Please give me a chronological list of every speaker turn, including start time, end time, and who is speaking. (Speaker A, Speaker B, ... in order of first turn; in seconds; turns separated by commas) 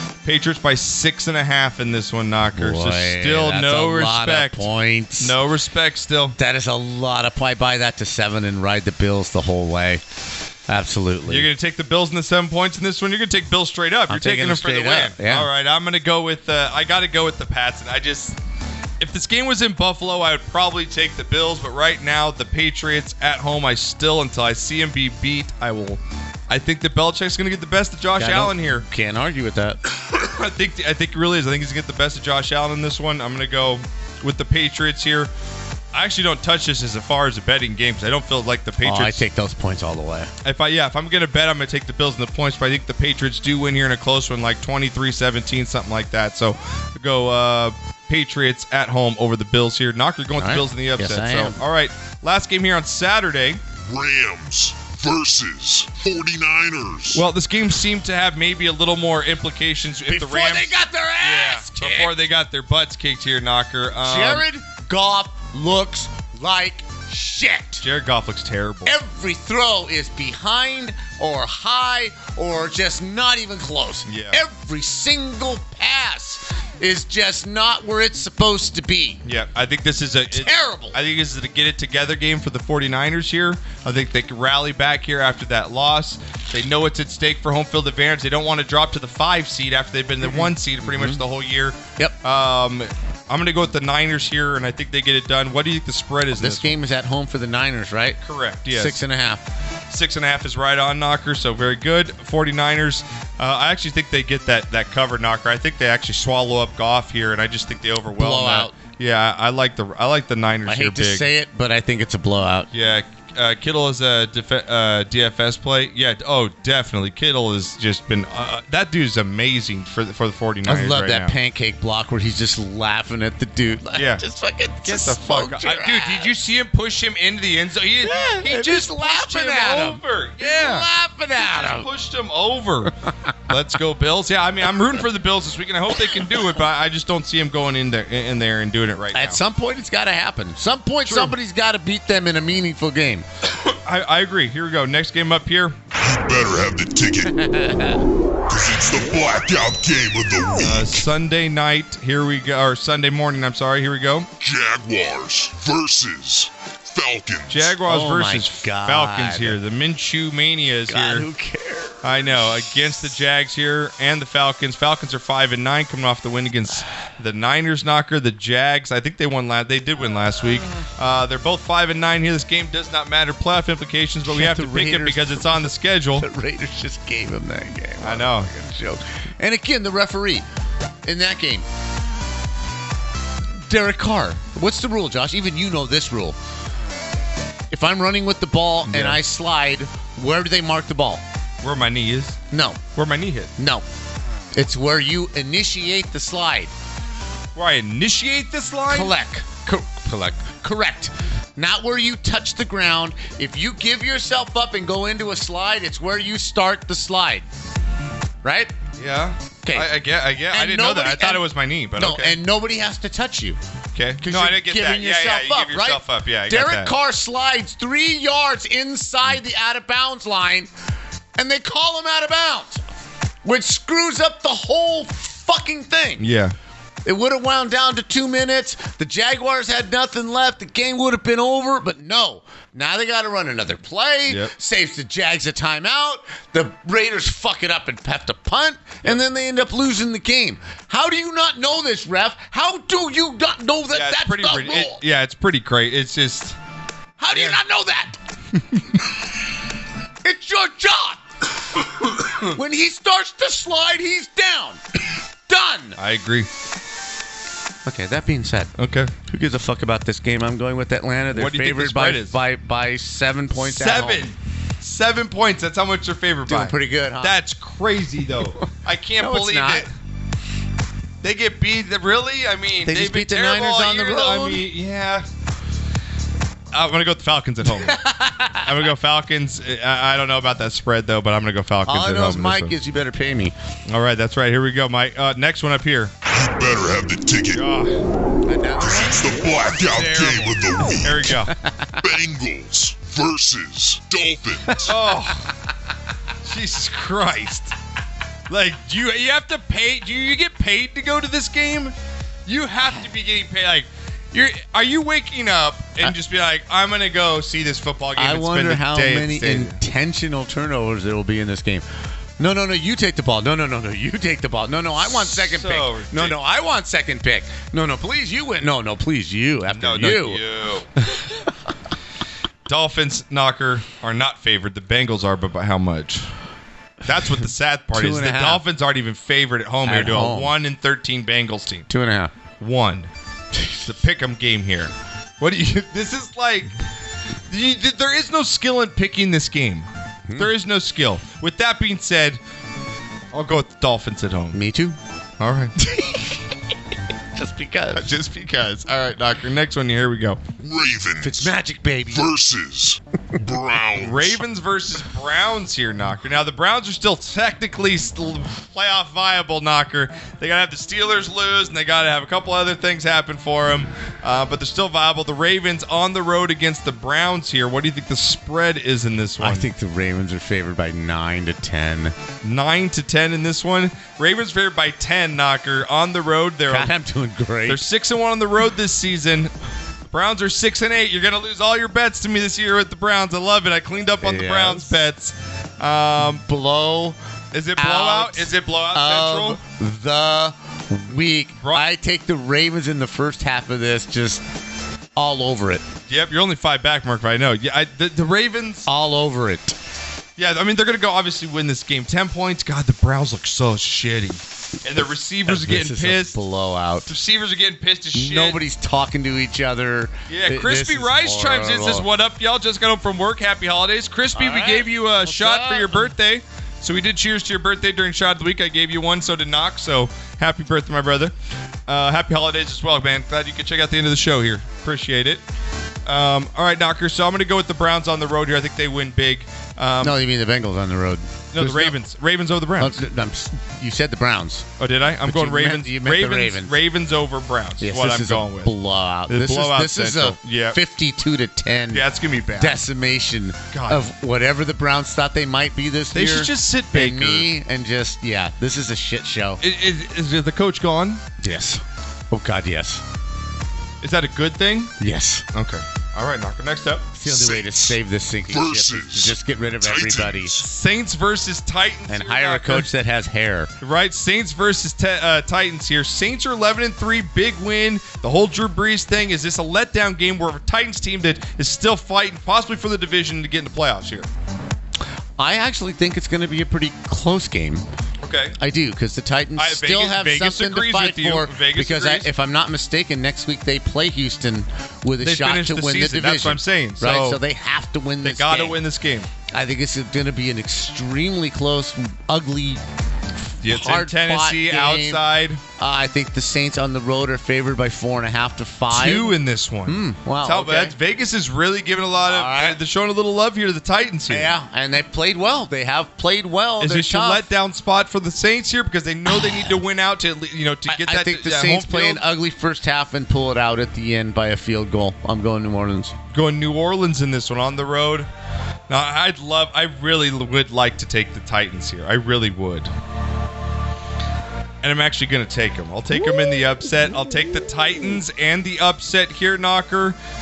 Speaker A: 0.2-6.3, Speaker B: 2.5-5.3, Speaker B: 6.4-10.0, Speaker B: 10.7-11.5, Speaker A: 11.3-18.4, Speaker B: 14.1-15.5, Speaker A: 19.0-28.9, Speaker B: 28.2-29.8, Speaker A: 30.0-35.3, Speaker A: 35.9-39.2, Speaker B: 38.8-40.3, Speaker A: 40.4-53.6, Speaker B: 50.4-51.6, Speaker C: 53.8-57.2, Speaker A: 57.1-64.4, Speaker B: 60.1-62.1, Speaker B: 64.0-67.8, Speaker A: 67.8-68.9, Speaker B: 68.8-79.2, Speaker A: 74.1-74.4, Speaker A: 79.2-96.8, Speaker B: 80.3-81.0, Speaker B: 90.2-91.2, Speaker B: 96.3-99.4, Speaker A: 98.2-99.0, Speaker A: 99.9-111.3, Speaker B: 108.2-108.7, Speaker B: 110.7-112.7, Speaker A: 112.7-121.3, Speaker B: 120.7-126.3, Speaker A: 123.9-124.2, Speaker A: 124.8-130.9, Speaker B: 128.0-131.9, Speaker A: 131.4-132.9, Speaker A: 133.5-139.4, Speaker B: 139.1-143.2, Speaker A: 141.0-141.3, Speaker A: 143.7-145.8, Speaker C: 145.9-147.6, Speaker B: 147.4-148.0, Speaker C: 148.5-150.9, Speaker A: 150.6-154.3, Speaker C: 154.4-157.7, Speaker A: 157.5-161.2, Speaker B: 157.8-159.6, Speaker B: 160.9-162.3, Speaker A: 162.0-176.2, Speaker B: 174.2-175.6, Speaker B: 176.2-180.4, Speaker A: 178.0-178.5, Speaker B: 181.0-181.7, Speaker B: 183.6-186.4, Speaker B: 187.7-191.2, Speaker A: 188.8-189.2, Speaker A: 191.6-192.4, Speaker B: 192.5-192.8, Speaker A: 192.9-193.5, Speaker B: 193.6-193.8, Speaker B: 194.5-196.7, Speaker A: 197.5-199.1, Speaker B: 198.9-207.5, Speaker B: 208.4-208.7, Speaker A: 209.0-212.4, Speaker B: 209.6-209.9, Speaker B: 210.5-213.6, Speaker A: 213.9-216.9, Speaker B: 214.2-220.7, Speaker B: 221.4-222.8, Speaker B: 223.4-226.3, Speaker A: 226.2-226.5, Speaker B: 227.0-245.0, Speaker A: 234.2-234.5, Speaker A: 243.9-246.6, Speaker B: 247.2-248.2, Speaker A: 247.3-247.6, Speaker B: 250.2-251.2, Speaker B: 252.4-254.8, Speaker B: 255.5-256.0, Speaker A: 256.0-256.5, Speaker B: 257.8-258.7, Speaker A: 258.8-259.1, Speaker B: 259.3-264.2, Speaker A: 261.3-262.4, Speaker A: 263.5-269.9, Speaker B: 266.5-267.4, Speaker B: 269.2-269.9, Speaker A: 271.2-275.3, Speaker B: 272.8-274.6, Speaker A: 276.7-282.8, Speaker B: 277.6-278.7, Speaker B: 281.9-283.5, Speaker A: 283.9-286.1, Speaker C: 286.2-287.6, Speaker A: 287.5-288.0, Speaker B: 288.4-289.2, Speaker C: 288.8-291.3, Speaker A: 289.8-291.5, Speaker B: 291.6-292.0, Speaker C: 292.0-294.9, Speaker A: 294.9-295.5, Speaker A: 296.4-297.7, Speaker A: 298.5-301.9, Speaker A: 302.4-309.8, Speaker B: 308.1-311.8, Speaker B: 312.4-320.4, Speaker A: 315.0-316.4, Speaker A: 319.7-320.9, Speaker A: 322.7-326.3, Speaker A: 327.0-331.9, Speaker B: 327.9-328.6, Speaker B: 329.8-330.5, Speaker B: 331.9-332.3, Speaker A: 332.6-333.1, Speaker A: 333.8-336.7, Speaker A: 337.5-342.4, Speaker B: 340.3-340.5, Speaker A: 343.3-344.6, Speaker B: 344.5-344.9, Speaker A: 345.4-345.7, Speaker B: 345.8-346.4, Speaker B: 347.3-348.1, Speaker A: 347.9-350.5, Speaker C: 350.6-351.5, Speaker B: 351.2-352.2, Speaker C: 352.1-354.4, Speaker A: 353.9-369.7, Speaker B: 369.4-372.1, Speaker A: 372.4-376.9, Speaker B: 376.7-377.8, Speaker A: 377.6-379.5, Speaker A: 380.1-386.4, Speaker B: 384.2-385.0, Speaker B: 386.4-387.2, Speaker A: 387.5-389.6, Speaker B: 387.8-394.4, Speaker A: 391.6-391.9, Speaker B: 395.1-395.8, Speaker A: 396.1-398.9, Speaker B: 398.9-399.8, Speaker A: 400.4-406.4, Speaker B: 405.4-407.1, Speaker A: 407.1-408.6, Speaker B: 408.1-412.1, Speaker A: 410.3-421.3, Speaker B: 414.3-416.1, Speaker A: 421.9-425.4, Speaker A: 426.1-430.2, Speaker B: 430.0-432.0, Speaker A: 431.5-433.0, Speaker B: 432.8-434.7, Speaker A: 434.8-438.7, Speaker B: 435.2-436.8, Speaker B: 437.8-449.6, Speaker A: 439.3-440.8, Speaker A: 441.9-442.8, Speaker A: 443.7-444.0, Speaker A: 446.1-447.5, Speaker A: 449.6-451.2, Speaker B: 451.4-453.0, Speaker A: 454.0-454.9, Speaker B: 455.0-455.4, Speaker A: 455.5-457.1, Speaker B: 457.1-460.6, Speaker C: 457.2-460.6, Speaker A: 460.6-462.9, Speaker B: 462.1-463.7, Speaker A: 463.8-474.3, Speaker B: 475.4-477.8, Speaker A: 478.2-478.6, Speaker B: 478.6-488.8, Speaker A: 479.6-482.3, Speaker A: 485.2-487.4, Speaker A: 488.2-489.3, Speaker B: 489.5-492.8, Speaker A: 493.6-495.6, Speaker B: 493.6-495.2, Speaker B: 495.8-500.9, Speaker A: 498.9-504.5, Speaker B: 502.3-502.8, Speaker B: 504.3-507.4, Speaker A: 506.8-512.2, Speaker B: 510.9-516.1, Speaker A: 516.3-518.3, Speaker A: 518.9-522.9, Speaker A: 524.8-530.2